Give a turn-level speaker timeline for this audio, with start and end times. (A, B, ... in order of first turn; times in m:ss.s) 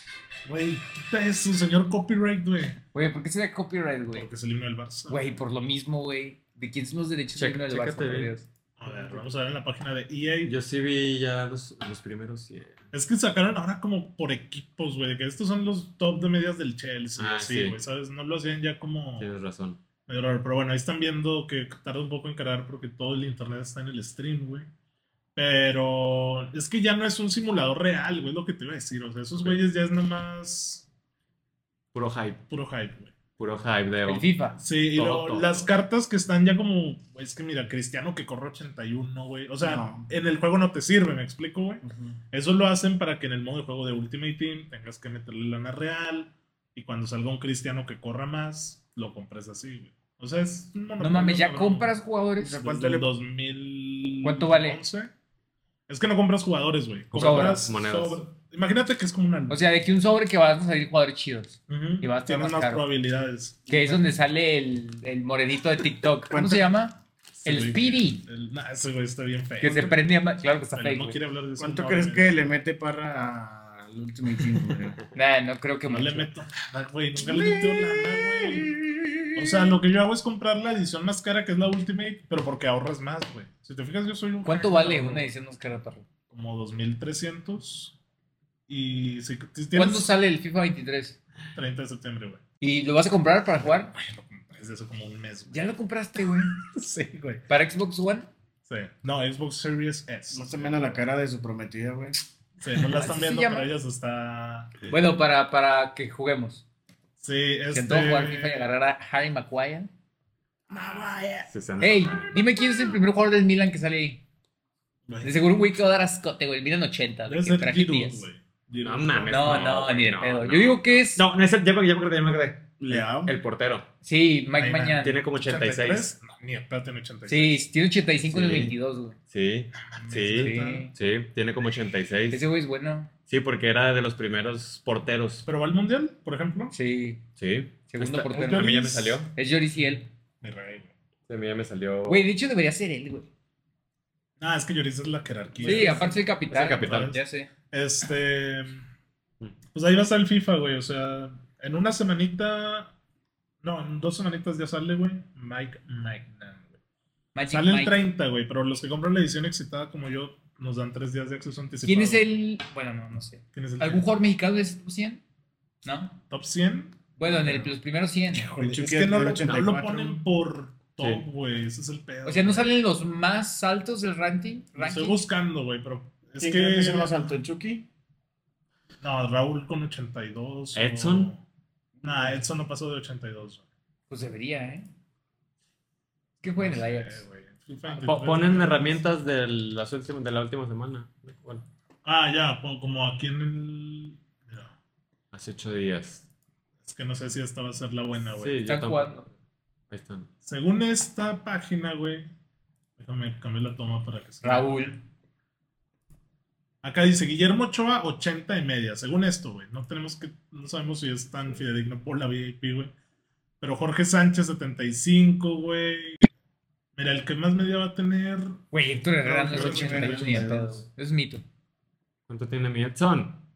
0:00.4-0:02.8 A
0:02.9-0:04.3 B
0:04.1-0:05.2 A
0:05.1-0:09.1 B
0:07.4-0:08.3 C
0:08.8-0:10.5 A
0:10.4-0:12.8 C
0:12.9-0:19.3 A
0:17.2-0:17.8 C
0:19.2-0:19.8 C
0:20.1-0:24.7 A
0:25.4-0:30.9 A
0:31.9-0:32.4 C
0:32.5-0:33.1 A
0:33.4-0:34.3 C
0:34.0-0:34.6 B
0:34.6-0:51.9 A
0:35.0-0:35.7 C
0:39.6-0:40.1 D
0:41.8-0:42.2 D
0:51.0-0:52.6 B
0:52.4-0:53.1 D
0:52.6-0:55.1 A
0:54.2-0:54.8 B
0:55.9-0:59.6 A
0:57.1-0:58.2 C
0:57.1-0:57.6 B
0:59.5-1:02.8 B
1:01.7-1:03.6 A
1:03.7-1:08.2 B
1:03.7-1:04.0 D
1:06.3-1:06.7 D
1:07.4-1:10.0 A
1:09.6-1:11.2 B
1:10.7-1:12.4 A
1:11.6-1:15.0 D
1:15.1-1:16.3 B
1:15.9-1:18.7 A
1:17.2-1:19.4 D
1:19.3-1:25.3 A
1:24.4-1:26.0 B
1:26.3-1:27.9 A
1:28.7-1:30.1 A
1:29.7-1:31.2 B
1:31.5-1:32.4 A
1:32.6-1:33.9 B
1:33.6-1:35.6 A
1:35.5-1:36.6 B
1:36.6-1:37.4 A
1:37.5-1:38.3 B
1:38.6-1:41.0 A
1:40.3-1:42.2 D
1:42.6-1:44.8 A
1:42.8-1:43.7 B
1:44.9-1:46.6 B
1:47.2-1:48.7 A
1:47.7-1:49.9 B
1:50.7-1:51.4 D
1:51.5-1:52.3 C
1:51.8-1:54.2 B
1:55.1-1:55.4 A
1:55.2-1:58.2 B
1:57.2-1:59.8 A
1:58.8-2:03.9 C
1:59.3-2:01.2 B
2:02.8-2:03.4 D
2:04.0-2:05.2 B
2:04.6-2:07.6 A
2:05.0-2:06.1 C
2:07.3-2:09.2 B
2:08.3-2:08.7 C
2:09.3-2:12.4 C
2:09.8-2:10.9 A
2:10.4-2:10.9 B
2:12.3-2:13.1 B
2:13.3-2:15.4 C
2:15.4-2:16.7 A
2:16.7-2:17.2 B
2:17.4-2:19.3 C
2:17.9-2:20.1 B
2:18.3-2:19.2 A
2:20.4-2:20.9 A
2:21.3-2:22.2 C
2:22.1-2:23.3 B
2:24.4-2:26.2 A
2:25.6-2:27.5 B
2:25.7-2:26.0 C
2:26.5-2:27.1 C
2:26.8-2:27.2 A
2:27.7-2:28.8 A
2:29.7-2:32.9 A
2:33.6-2:36.7 A
2:37.3-2:38.0 B
2:37.5-2:42.2 A
2:41.8-2:45.2 B
2:43.5-2:44.1 A
2:45.8-2:46.2 B
2:46.3-2:47.0 A
2:47.2-2:48.5 B
2:47.3-2:47.7 D
2:48.3-2:52.8 A
2:48.6-2:50.2 D
2:49.4-2:49.6 C
2:51.0-2:51.2 C
2:52.2-2:55.2 B
2:54.8-2:57.2 A
2:56.4-2:57.9 D
2:59.0-3:01.4 A
3:00.7-3:01.3 C
3:02.0-3:02.4 D
3:02.0-3:03.6 A
3:04.1-3:04.9 B
3:06.4-3:07.2 B
3:06.6-3:09.0 A
3:08.0-3:11.6 C
3:12.0-3:14.7 A
3:15.3-3:16.2 C
3:16.8-3:18.6 A
3:18.4-3:19.3 C
3:18.6-3:19.3 B
3:19.9-3:20.3 C
3:20.4-3:22.3 A
3:23.0-3:24.9 A
3:24.4-3:25.0 B
3:26.8-3:32.9 A
3:33.6-3:36.3 A
3:37.0-3:38.6 A
3:38.7-3:41.4 B
3:39.2-3:40.8 D
3:39.4-3:40.4 A
3:42.3-3:43.4 C